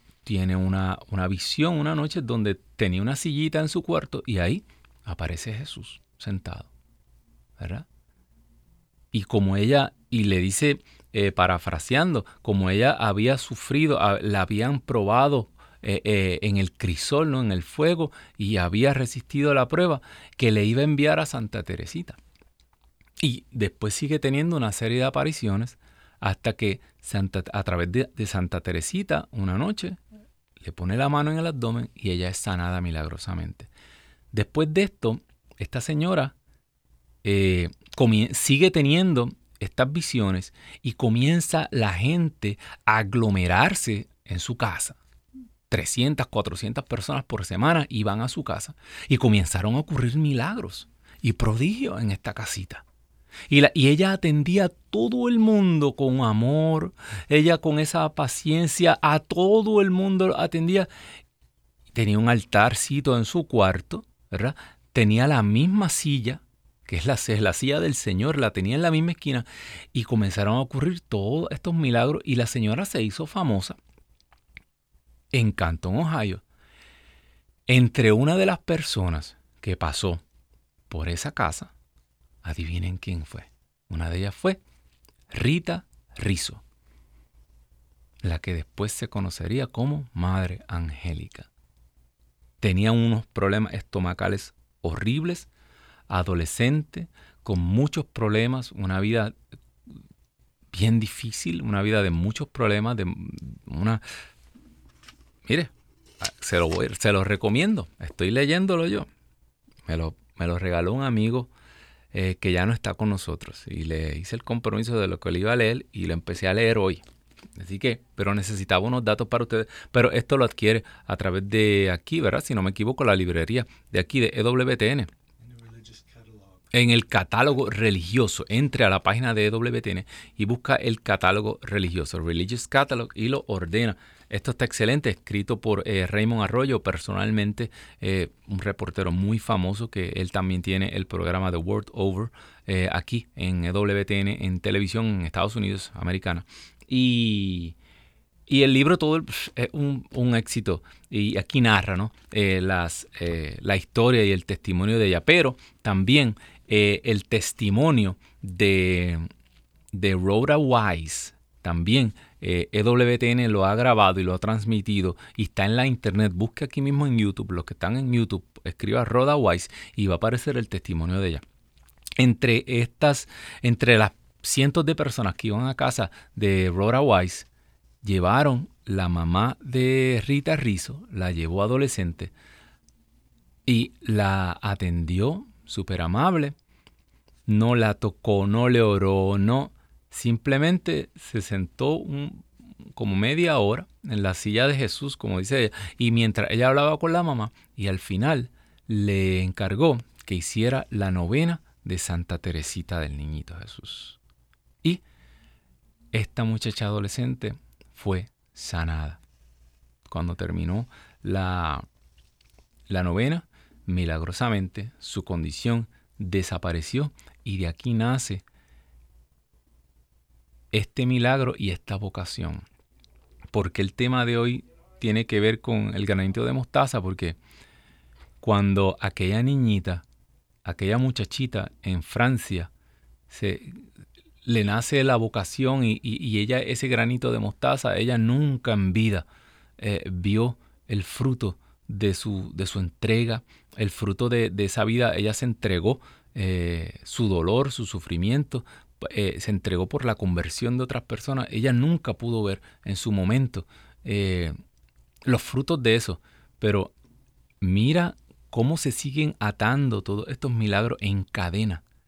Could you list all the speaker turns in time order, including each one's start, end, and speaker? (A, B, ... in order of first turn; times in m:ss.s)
0:00.2-0:06.7 A
0:07.6-0:07.9 A
0:09.1-0:22.2 A
0:23.2-0:30.0 A
0:30.6-0:33.7 A
0:34.3-0:36.3 A
0:37.2-0:45.0 A
0:45.7-0:52.8 A
0:53.5-1:00.9 A
1:01.9-1:13.8 A
1:15.3-1:16.4 A
1:17.7-1:20.2 A
1:20.9-1:21.7 A
1:22.4-1:24.6 A
1:25.3-1:26.6 A
1:28.2-1:31.5 A
1:32.6-1:35.5 A
1:36.1-1:39.4 A
1:40.7-1:44.0 A
1:45.5-1:49.1 A
1:49.9-1:51.5 A
1:52.1-1:57.0 A
1:57.6-2:05.1 A
2:06.7-2:27.8 A
2:28.5-2:39.3 A
2:39.9-2:51.4 A
2:52.2-2:57.5 A
2:58.0-3:02.3 A
3:03.7-3:06.6 A
3:07.5-3:24.2 A
3:26.1-3:29.2 A
3:30.1-3:31.8 A
3:32.9-3:38.4 A
3:40.7-3:42.6 A
3:43.5-3:47.4 A
3:48.4-3:50.0 A
3:50.6-3:52.7 A
3:53.3-3:53.9 A
3:54.4-3:59.3 A
3:59.8-4:14.6 A
4:15.3-4:16.9 A
4:17.6-4:21.8 A